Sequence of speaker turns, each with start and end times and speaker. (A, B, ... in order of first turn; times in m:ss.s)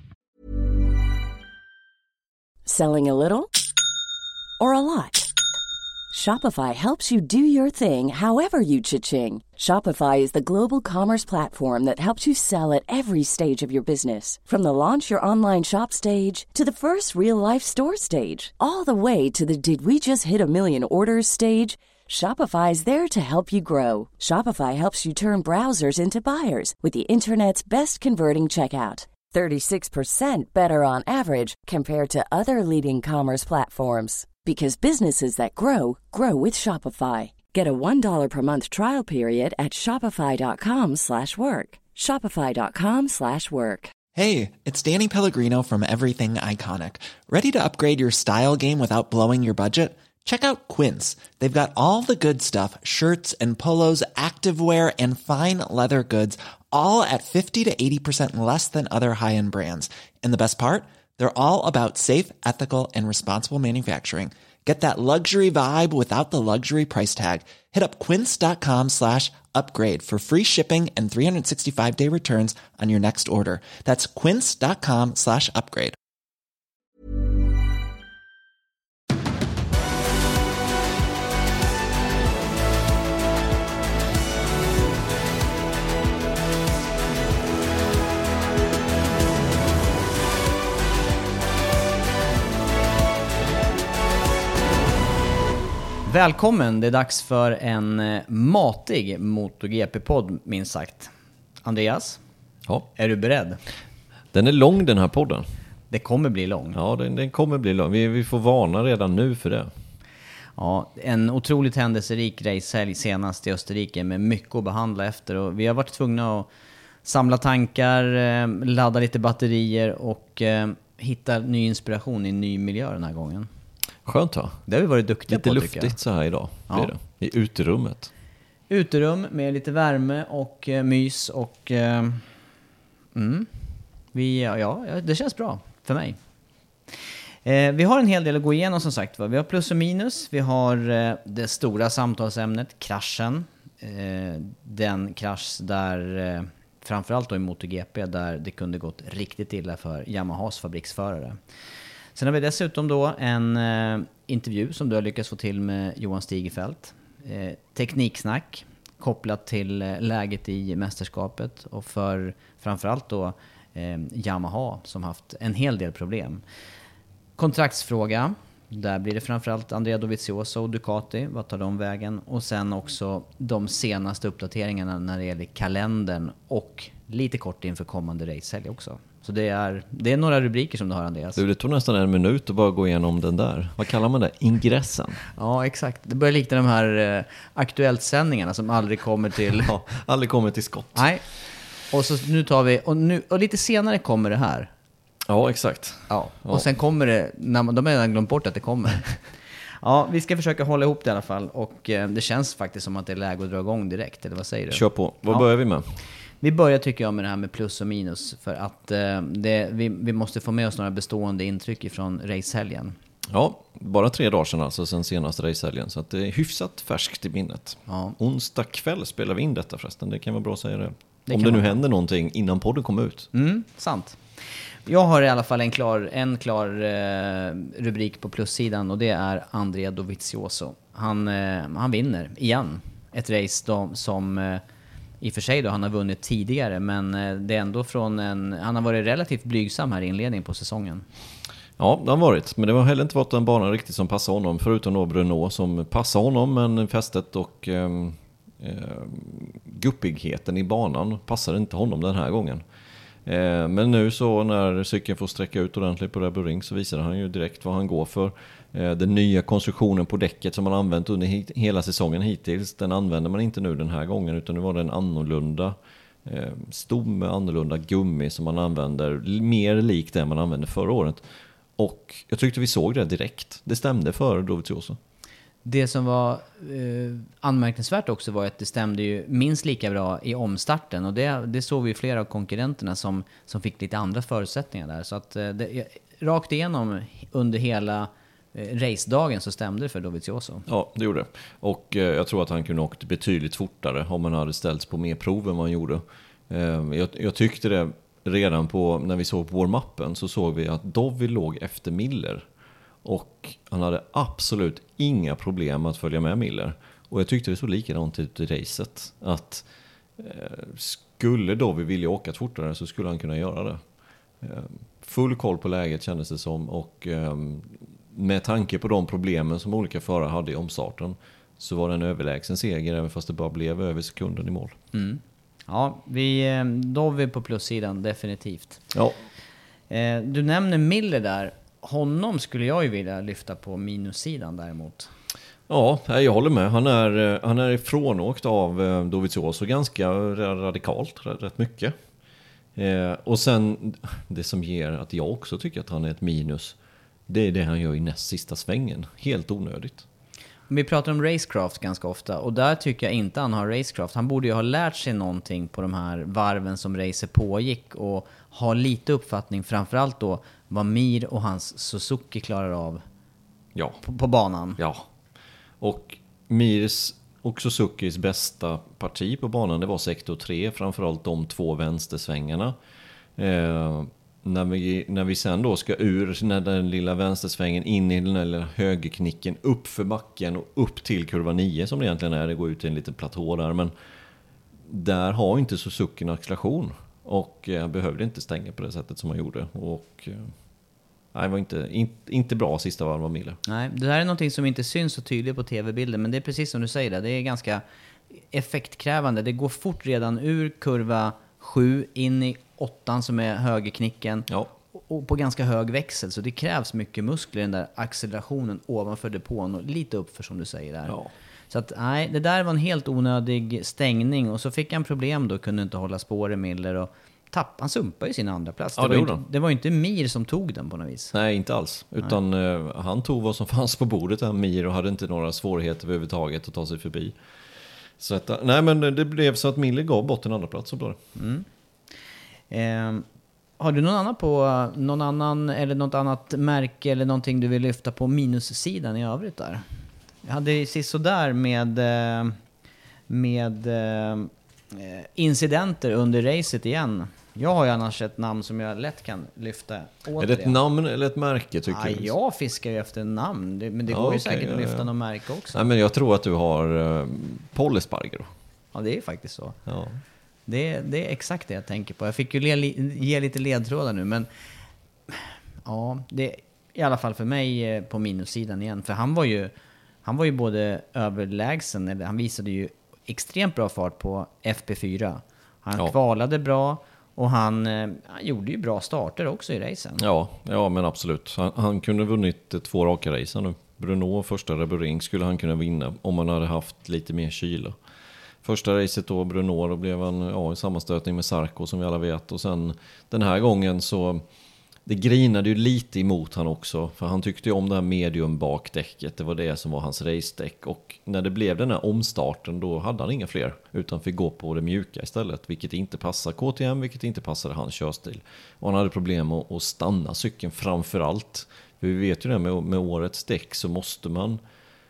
0:02.6-0:03.5 A
0:04.6-0:05.3 A
0:06.1-0:43.9 A
0:44.1-1:16.0 B
1:36.0-1:41.1 C
1:41.6-1:42.2 C
1:42.9-1:43.6 C
1:44.3-1:45.5 D
1:45.9-1:46.8 C
1:46.7-1:49.7 D
1:50.6-1:56.5 C
1:57.0-2:03.5 C
2:04.0-2:04.6 D
2:04.7-2:06.0 C
2:05.3-2:08.1 D
2:08.7-2:12.4 C
2:13.1-2:16.2 C
2:16.9-2:31.4 C
2:32.1-2:46.4 C
2:47.4-3:01.4 C
3:01.3-3:05.2 D
3:05.3-3:09.7 C
3:09.5-3:11.1 D
3:10.9-3:11.2 C
3:11.9-3:14.7 C
3:15.3-3:16.6 D
3:16.1-3:19.2 C
3:19.8-3:25.5 C
3:24.7-3:26.0 D
3:26.4-3:33.0 C
3:33.3-3:43.3 D
3:37.9-3:38.2 C
3:41.3-3:41.8 C
3:43.3-3:54.6 C
3:55.2-4:01.1 C
4:01.8-4:12.6 D
4:13.2-4:35.0 D
4:35.6-4:50.6 C
4:50.7-5:02.4 D
5:03.0-5:09.6 D
5:10.2-5:13.8 D
5:14.4-5:24.8 D
5:24.9-5:28.8 C
5:28.9-5:29.2 D
5:29.9-5:35.1 C
5:35.7-5:41.9 D
5:42.8-5:46.8 D
5:47.3-5:50.0 D
5:50.7-6:03.0 C
6:03.7-6:04.0 D
6:04.0-6:04.8 C
6:04.8-6:05.1 D
6:05.8-6:12.8 D
6:13.4-6:23.9 D
6:24.9-6:30.5 D
6:31.3-6:33.6 D
6:33.6-6:51.1 C
6:51.1-6:51.3 D
6:51.7-7:01.3 C
6:59.0-6:59.4 D
7:01.3-7:07.4 D
7:08.2-7:11.2 D
7:11.4-7:11.6 C
7:12.7-7:13.2 C
7:13.8-7:19.8 C
7:20.4-7:22.6 C
7:23.3-7:30.8 C
7:30.4-7:32.3 D
7:31.9-7:35.8 C
7:34.1-7:35.1 D
7:35.7-7:38.5 D
7:38.9-7:39.8 C
7:39.8-7:40.2 D
7:40.7-7:44.5 C
7:45.3-7:49.7 C
7:50.2-8:00.2 C
8:00.2-8:08.0 D
8:08.6-8:14.4 D
8:15.0-8:34.6 D